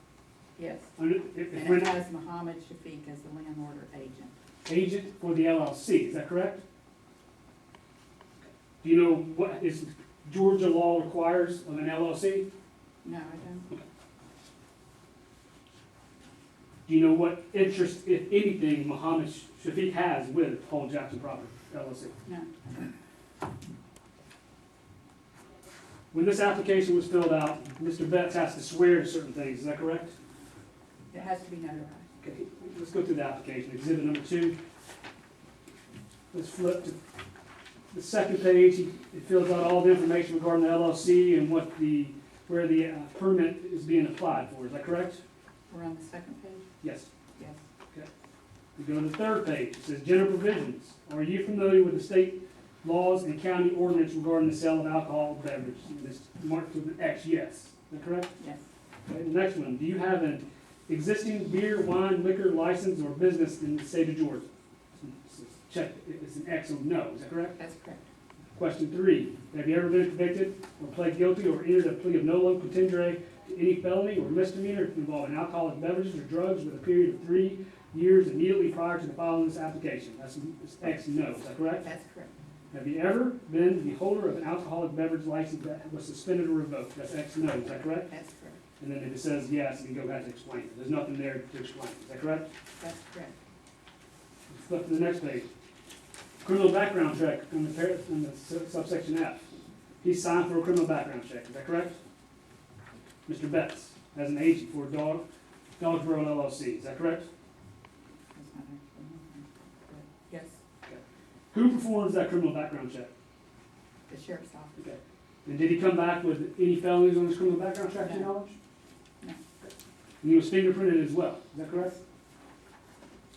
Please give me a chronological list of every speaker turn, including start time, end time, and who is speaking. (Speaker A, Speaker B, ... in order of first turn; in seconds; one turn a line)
Speaker A: 0.6-0.9
Speaker B: 1.0-1.9
Speaker A: 1.5-4.3
Speaker B: 4.7-6.6
Speaker B: 8.4-12.5
Speaker A: 13.0-13.7
Speaker B: 16.9-22.1
Speaker A: 22.2-22.8
Speaker B: 26.1-30.1
Speaker A: 31.1-32.1
Speaker B: 32.2-34.5
Speaker B: 36.3-37.0
Speaker B: 37.9-45.2
Speaker A: 45.7-46.7
Speaker B: 46.8-47.1
Speaker A: 47.4-47.6
Speaker B: 48.8-58.3
Speaker A: 58.4-58.6
Speaker B: 59.1-67.5
Speaker A: 67.5-68.0
Speaker B: 68.5-81.8
Speaker A: 81.8-82.3
Speaker B: 82.7-88.1
Speaker A: 88.1-88.6
Speaker B: 88.8-92.5
Speaker A: 92.8-93.3
Speaker B: 94.5-95.5
Speaker B: 96.4-99.4
Speaker B: 100.0-102.0
Speaker B: 103.2-105.2
Speaker B: 105.8-107.3
Speaker A: 108.3-110.6
Speaker B: 110.8-113.1
Speaker A: 114.1-114.8
Speaker B: 114.8-118.5
Speaker A: 118.0-118.4
Speaker B: 120.2-121.9
Speaker A: 121.7-122.0